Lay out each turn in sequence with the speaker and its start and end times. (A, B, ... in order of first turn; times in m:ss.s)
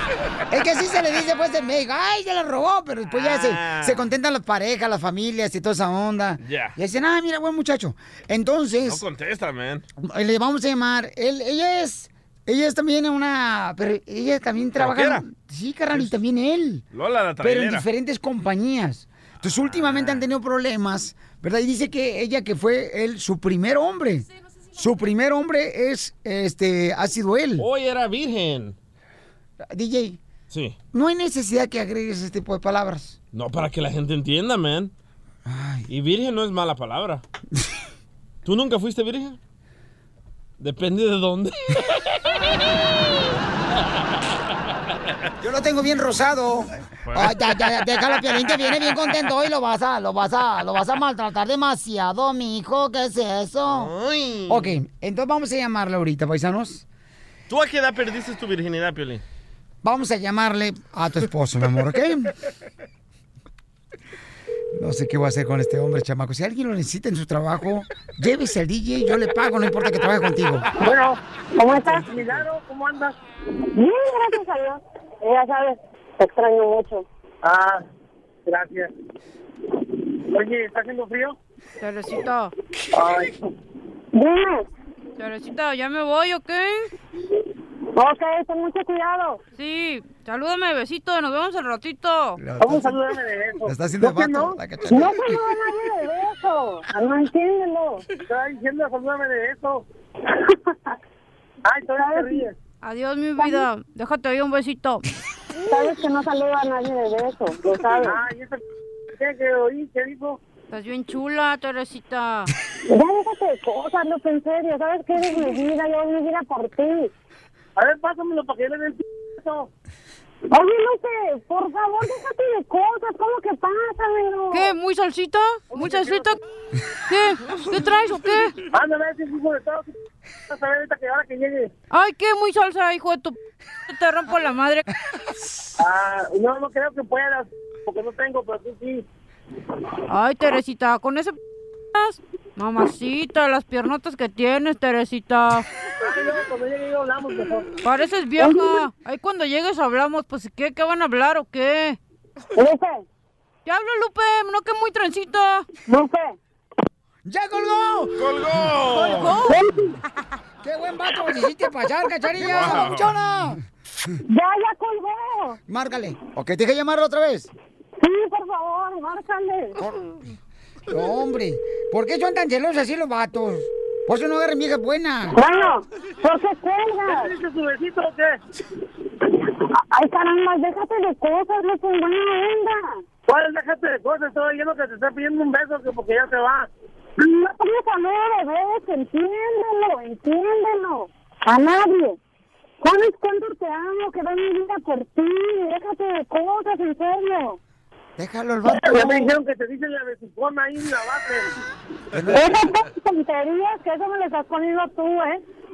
0:00.5-0:09.0 A
0:03.1-0:04.1 B
0:06.4-0:06.7 B
0:08.8-0:09.8 B
0:10.0-0:16.8 A
0:14.8-0:15.2 B
0:16.9-0:17.8 B
0:17.4-0:27.7 A
0:19.4-0:20.2 B
0:27.6-0:28.8 B
0:29.7-0:30.2 A
0:30.9-0:33.2 A
0:33.3-0:34.9 B
0:35.4-0:35.9 A
0:35.9-0:37.2 B
0:38.4-0:39.4 B
0:40.6-0:42.0 B
0:45.4-0:53.9 A
0:47.0-0:48.8 B
0:53.6-0:54.7 B
0:54.5-0:56.8 A
0:57.5-0:59.2 B
0:59.8-1:02.3 A
1:04.7-1:10.7 A
1:10.8-1:11.2 C
1:11.6-1:12.0 D
1:11.8-1:13.2 C
1:13.7-1:17.0 D
1:17.4-1:17.8 C
1:18.4-1:18.9 C
1:20.3-1:21.4 C
1:21.8-1:22.5 E
1:22.9-1:23.3 C
1:24.1-1:24.6 D
1:25.2-1:26.9 E
1:28.0-1:29.4 D
1:29.5-1:32.4 E
1:32.4-1:33.0 A
1:32.6-1:34.6 C
1:33.6-1:35.5 A
1:34.9-1:38.0 D
1:38.3-1:39.8 C
1:41.6-1:42.5 C
1:42.0-1:42.4 D
1:42.8-1:45.0 E
1:45.7-1:48.2 D
1:47.9-1:48.6 C
1:49.1-1:50.4 C
1:50.7-1:52.5 E
1:52.9-1:57.1 D
1:57.8-1:59.7 C
2:00.5-2:04.6 D
2:04.5-2:06.4 E
2:05.7-2:06.3 C
2:07.1-2:08.6 E
2:08.7-2:09.9 C
2:10.5-2:11.7 C
2:11.9-2:13.4 E
2:13.9-2:14.8 E
2:15.8-2:19.0 C
2:20.1-2:21.4 E
2:21.9-2:25.7 E
2:26.0-2:27.7 C
2:27.8-2:32.0 E
2:28.4-2:28.8 D
2:32.6-2:33.0 D
2:33.6-2:35.7 E
2:35.9-2:36.3 D
2:37.2-2:38.4 A
2:38.2-2:39.4 B
2:39.0-2:39.6 E
2:40.6-2:43.6 A
2:42.4-2:43.1 B
2:44.3-2:45.6 D
2:45.7-2:47.5 A
2:48.0-2:49.7 D
2:49.8-2:50.1 A
2:50.9-2:55.4 A
2:55.4-2:57.3 D
2:57.0-2:58.4 C
2:59.9-3:02.9 D
3:03.3-3:06.7 C
3:07.2-3:12.2 D
3:12.8-3:17.6 D
3:18.2-3:19.3 A
3:18.6-3:21.5 C
3:22.1-3:22.6 A
3:22.3-3:25.4 D